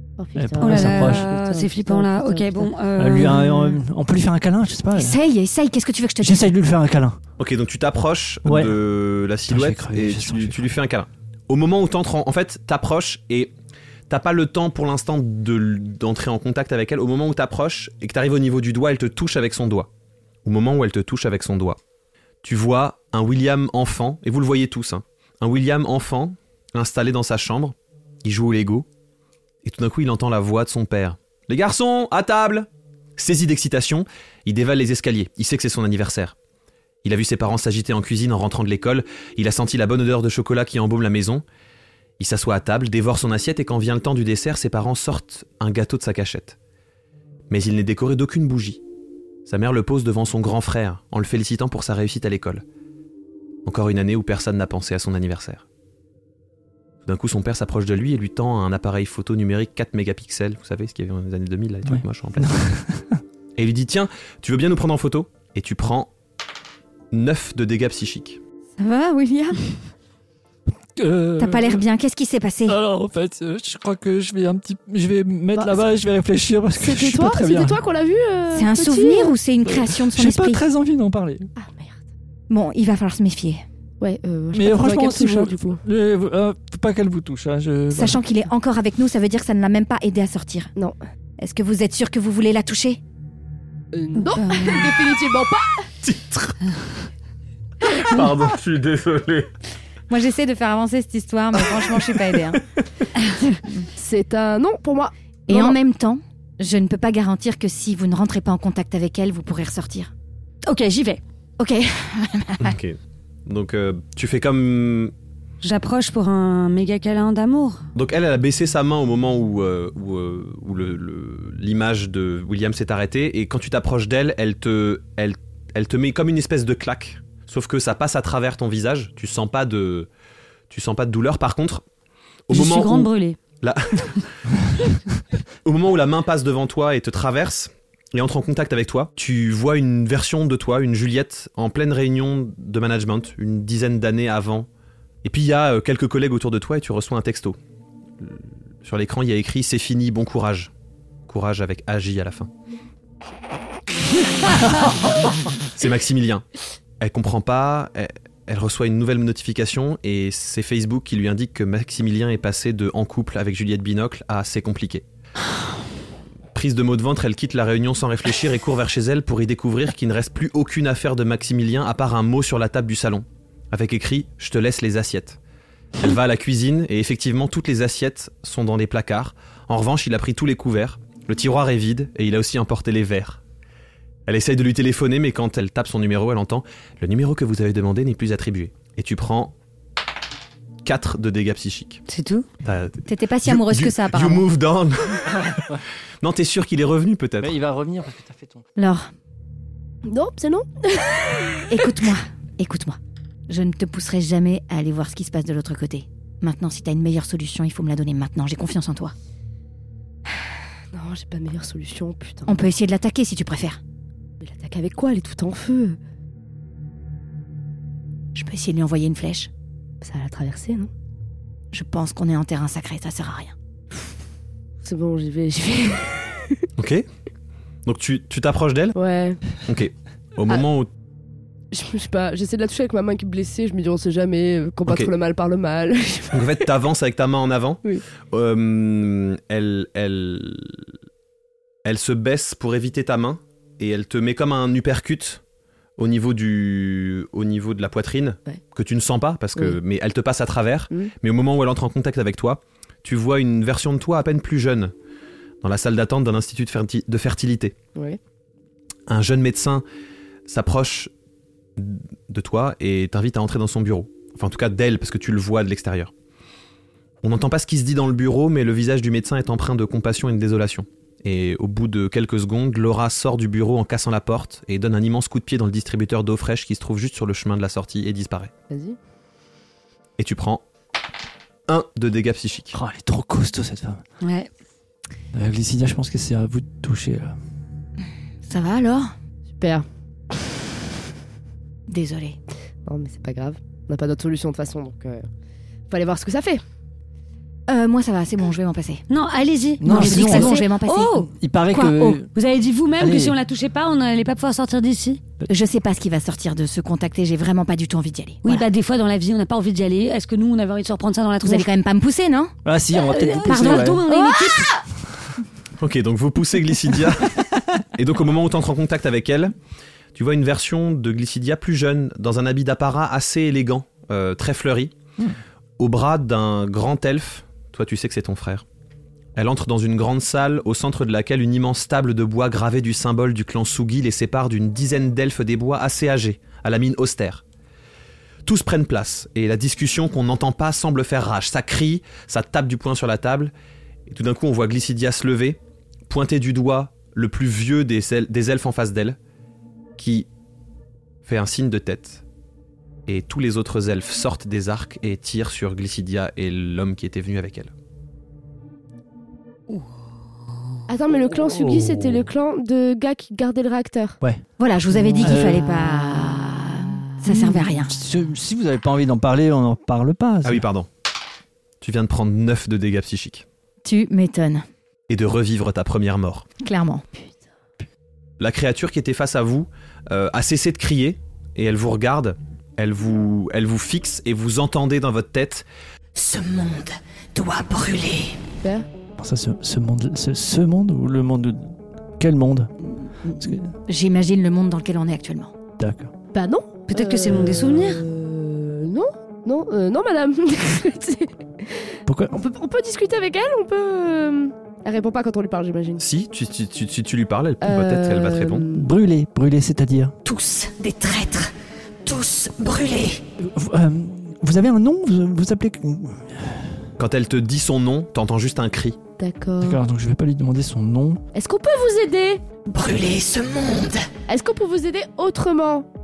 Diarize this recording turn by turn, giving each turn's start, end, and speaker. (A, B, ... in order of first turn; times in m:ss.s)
0:00.2-0:02.7 A
0:00.4-0:01.3 B
0:00.6-0:03.4 C
0:03.0-0:05.2 B
0:03.3-0:03.8 D
0:05.0-0:06.5 D
0:06.2-0:07.2 B
0:07.4-0:13.5 E
0:08.4-0:08.8 B
0:09.5-0:10.7 B
0:14.1-0:19.9 E
0:20.4-0:21.8 E
0:22.4-0:28.9 E
0:29.6-0:36.4 E
0:37.0-0:41.4 E
0:42.2-0:46.6 E
0:47.5-0:48.8 E
0:49.5-0:52.6 E
0:53.6-0:55.6 E
0:57.0-1:02.6 E
1:01.9-1:03.2 B
1:03.6-1:06.1 E
1:07.1-1:08.4 E
1:08.8-1:09.8 D
1:11.0-1:11.8 B
1:11.4-1:12.8 D
1:12.7-1:17.8 B
1:15.6-1:15.8 A
1:16.8-1:19.4 A
1:18.5-1:20.6 D
1:19.7-1:21.5 B
1:21.6-1:22.0 A
1:22.5-1:23.6 D
1:24.0-1:25.8 A
1:24.5-1:28.2 B
1:27.9-1:30.7 D
1:31.4-1:33.0 D
1:33.9-1:35.9 A
1:34.3-1:34.9 C
1:36.0-1:36.6 E
1:38.0-1:39.5 E
1:40.1-1:42.6 D
1:44.0-1:45.8 A
1:45.5-1:50.1 D
1:50.7-1:51.2 C
1:51.6-1:52.7 D
1:52.6-1:55.1 E
1:55.6-1:57.8 C
1:58.0-2:10.1 E
2:10.7-2:11.8 E
2:12.5-2:13.1 E
2:12.5-2:13.4 C
2:13.6-2:14.3 E
2:15.6-2:24.7 E
2:25.2-2:27.6 E
2:28.2-2:30.7 E
2:31.3-2:32.5 E
2:34.6-2:36.4 E
2:37.0-2:45.0 E
2:46.5-2:55.4 E
2:56.0-3:03.4 E
3:04.3-3:09.5 E
3:10.8-3:12.0 E
3:12.1-3:12.5 C
3:12.6-3:15.6 E
3:13.1-3:14.4 D
3:15.5-3:15.8 B
3:16.2-3:17.5 E
3:17.4-3:18.6 B
3:18.8-3:19.1 D
3:20.1-3:21.8 A
3:21.7-3:23.0 D
3:23.5-3:29.2 D
3:30.4-3:32.7 A
3:32.5-3:33.8 D
3:34.4-3:36.0 A
3:38.4-3:39.5 D
3:40.0-3:40.9 A
3:41.7-3:43.5 D
3:44.8-3:46.6 A
3:46.8-3:47.1 E
3:47.9-3:49.0 E
3:49.0-3:49.4 A
3:49.7-3:50.9 E
3:51.7-3:56.5 A
3:56.3-4:00.9 E
4:01.8-4:05.4 E
4:06.0-4:14.9 E
4:15.6-4:17.8 E
4:19.1-4:19.8 E
4:20.5-4:21.1 E
4:21.8-4:26.1 E
4:27.2-4:38.5 E
4:38.7-4:39.0 A
4:40.2-4:40.6 E
4:41.7-4:42.7 E
4:42.7-4:44.0 B
4:44.2-4:44.5 C
4:45.3-4:47.4 B
4:48.5-4:49.1 D
4:49.6-4:49.9 A
4:51.9-4:52.4 D
4:52.8-4:55.3 A
4:55.9-4:56.6 A
4:57.7-4:59.0 D
4:59.1-5:01.3 C
4:59.8-5:00.7 B
4:59.9-5:02.2 D
5:01.3-5:02.3 B
5:02.3-5:05.2 C
5:03.0-5:03.4 B
5:05.5-5:08.6 D
5:08.4-5:11.7 C
5:11.4-5:12.5 D
5:12.6-5:14.0 B
5:13.0-5:14.8 C
5:13.6-5:14.8 D
5:15.8-5:17.4 E
5:18.0-5:19.6 E
5:20.2-5:24.9 E
5:25.8-5:28.6 E
5:29.4-5:37.4 E
5:38.4-5:43.5 E
5:44.1-5:49.2 E
5:50.0-5:50.3 E
5:51.2-5:52.2 E
5:53.1-5:57.7 E
6:00.9-6:04.2 A
6:01.5-6:02.2 B
6:04.6-6:07.9 D
6:05.2-6:06.1 B
6:07.3-6:10.6 B
6:10.4-6:10.9 E
6:11.8-6:13.4 E
6:13.8-6:14.7 D
6:15.1-6:16.5 E
6:16.6-6:17.2 D
6:18.4-6:25.6 E
6:26.2-6:28.5 F
6:28.6-6:28.9 A
6:29.2-6:32.7 B
6:32.8-6:35.5 D
6:33.4-6:33.7 B
6:35.8-6:36.1 B
6:36.3-6:46.0 A
6:36.9-6:38.0 C
6:42.1-6:42.4 B
6:46.0-6:48.6 E
6:47.6-6:48.9 A
6:48.7-6:50.1 B
6:50.2-6:51.5 F
6:52.0-6:53.2 F
6:53.4-6:56.8 B
6:57.0-6:59.0 E
6:59.2-6:59.8 A
6:59.6-7:01.2 B
7:01.3-7:02.4 A
7:02.7-7:04.1 F
7:04.3-7:05.9 A